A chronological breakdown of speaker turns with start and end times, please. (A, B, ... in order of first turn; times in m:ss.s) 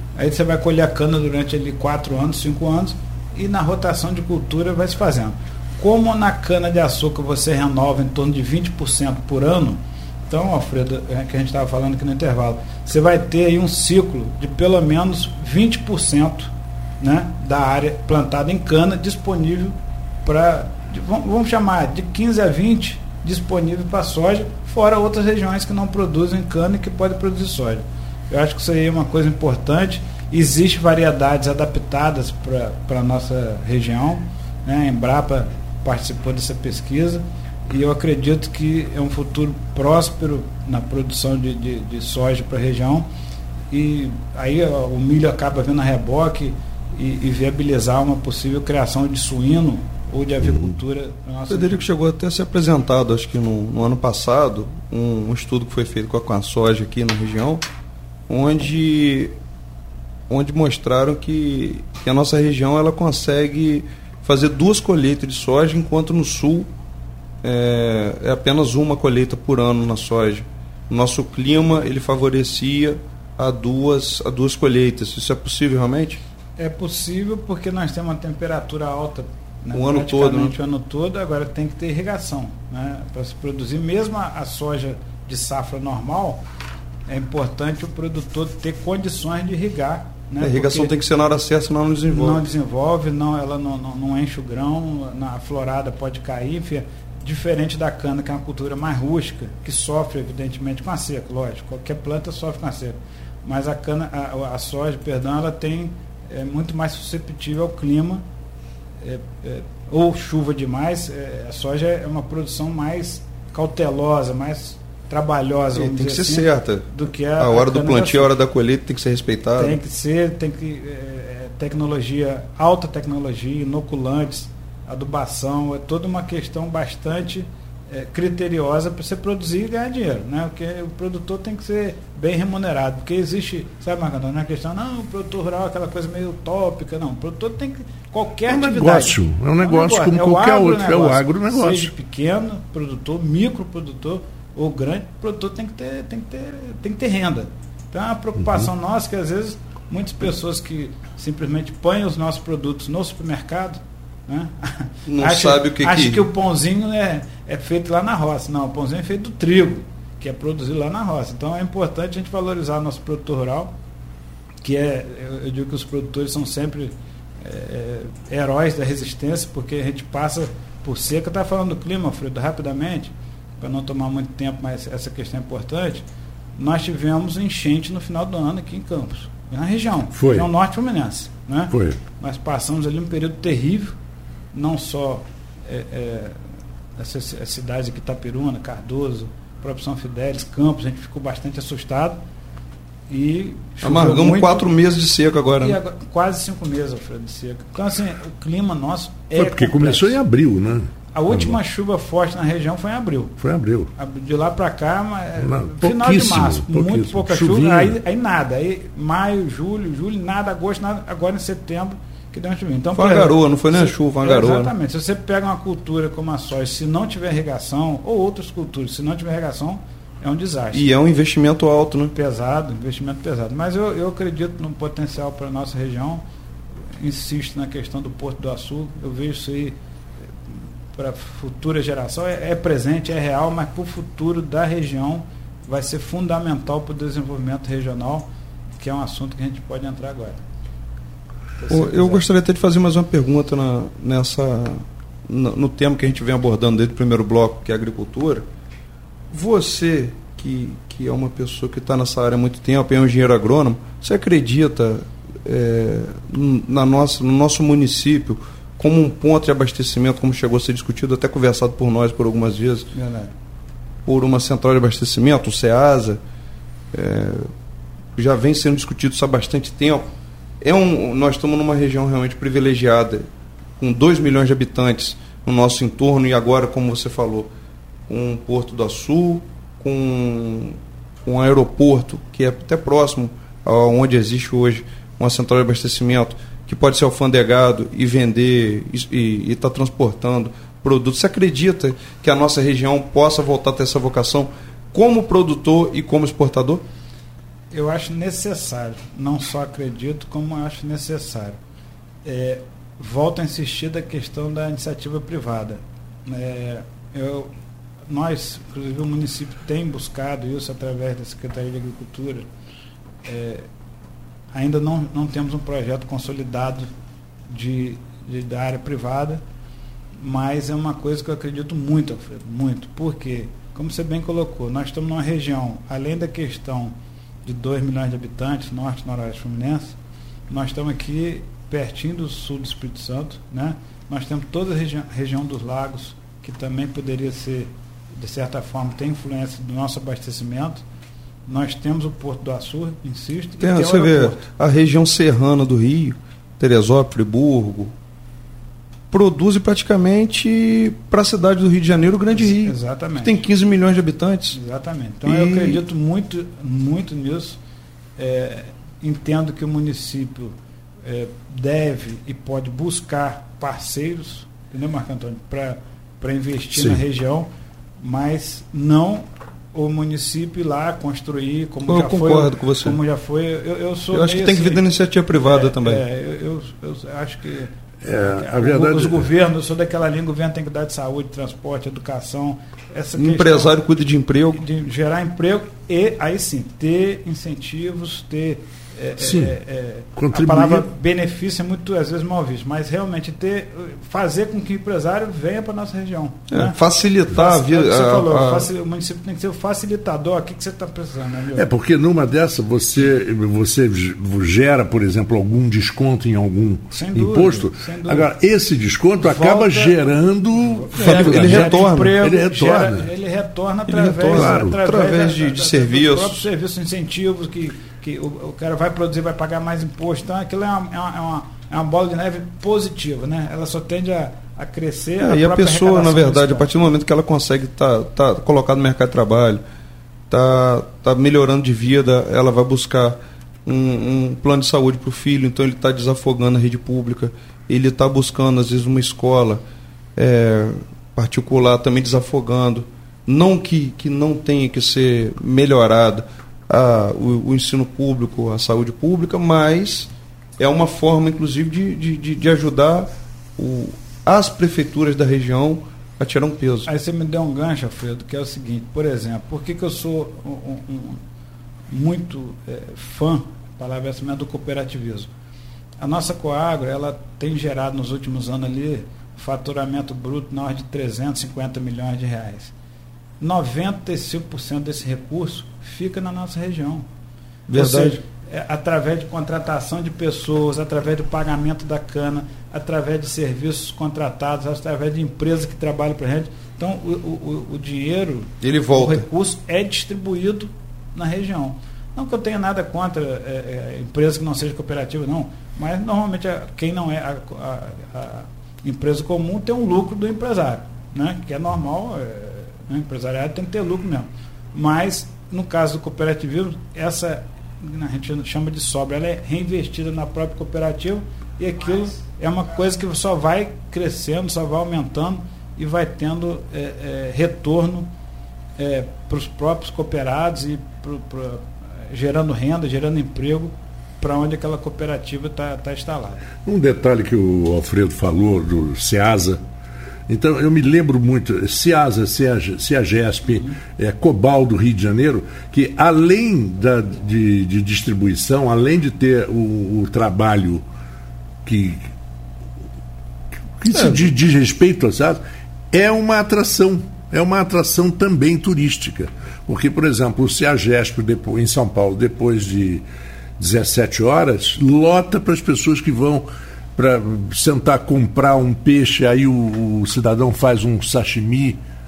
0:00.2-0:43.1 A
0:43.7-0:51.9 A
0:51.5-0:57.6 B
0:58.3-0:59.4 B
1:00.3-1:06.7 B
1:07.4-1:16.2 B
1:16.6-1:26.4 A
1:19.7-1:20.6 B
1:27.1-1:30.9 A
1:30.4-1:32.4 B
1:32.1-1:48.2 A
1:49.0-1:58.3 A
1:55.7-1:59.8 B
1:59.6-2:43.8 A
2:18.5-2:21.9 C
2:35.1-2:36.3 B
2:44.6-2:56.0 A
2:56.6-3:04.0 A
3:00.1-3:00.5 C
3:01.7-3:02.0 C
3:04.5-3:06.4 A
3:07.0-3:12.2 A
3:13.1-3:14.7 A
3:13.8-3:15.8 B
3:15.6-3:20.2 A
3:19.3-3:21.6 C
3:21.1-3:23.4 A
3:23.4-3:23.9 C
3:24.0-3:40.9 A
3:25.4-3:28.0 C
3:32.9-3:34.7 B
3:40.7-3:42.1 B
3:42.1-3:46.2 A
3:47.0-3:49.8 A
3:50.9-3:58.3 A
3:58.8-4:00.4 A
4:01.6-4:02.3 A
4:01.7-4:08.5 B
4:09.3-4:22.9 B
4:22.9-4:23.3 A
4:24.1-4:26.2 B
4:26.9-4:27.5 B
4:28.2-4:33.3 B
4:33.8-4:37.5 B
4:38.1-4:56.8 B
4:57.7-5:01.6 A
5:02.2-5:07.5 A
5:08.1-5:12.5 A
5:13.2-5:13.7 A
5:14.5-5:16.9 A
5:17.5-5:19.4 A
5:20.2-5:30.0 A
5:30.5-5:40.8 A
5:41.5-5:44.4 A
5:43.6-5:47.9 B
5:49.1-5:54.6 B
5:52.3-5:53.4 A
5:54.5-5:57.6 A
5:55.2-5:55.8 B
5:58.2-6:23.9 A
6:06.8-6:07.0 C
6:11.9-6:13.0 B
6:14.1-6:16.0 B
6:18.0-6:19.3 C
6:23.2-6:24.6 B
6:24.5-6:41.7 A
6:29.2-6:29.6 C
6:30.2-6:30.9 C
6:36.5-6:38.7 B
6:41.6-6:53.1 C
6:46.9-6:48.3 A
6:49.2-7:06.9 A
6:51.0-6:52.2 B
6:53.9-6:56.4 B
6:54.3-6:54.8 C
7:05.2-7:09.6 B
7:10.3-7:19.6 B
7:20.2-7:36.9 B
7:36.8-7:41.2 A
7:41.9-7:45.3 A
7:46.0-7:52.7 A
7:53.4-7:57.1 A
7:57.7-7:58.2 B
7:57.7-8:38.1 A
8:08.6-8:09.3 B
8:38.8-8:46.5 A
8:46.6-8:49.6 C
8:50.3-9:00.8 C
8:53.5-8:53.7 A
9:01.6-9:02.1 C
9:03.8-9:13.0 C
9:03.9-9:04.2 B
9:13.6-9:21.8 C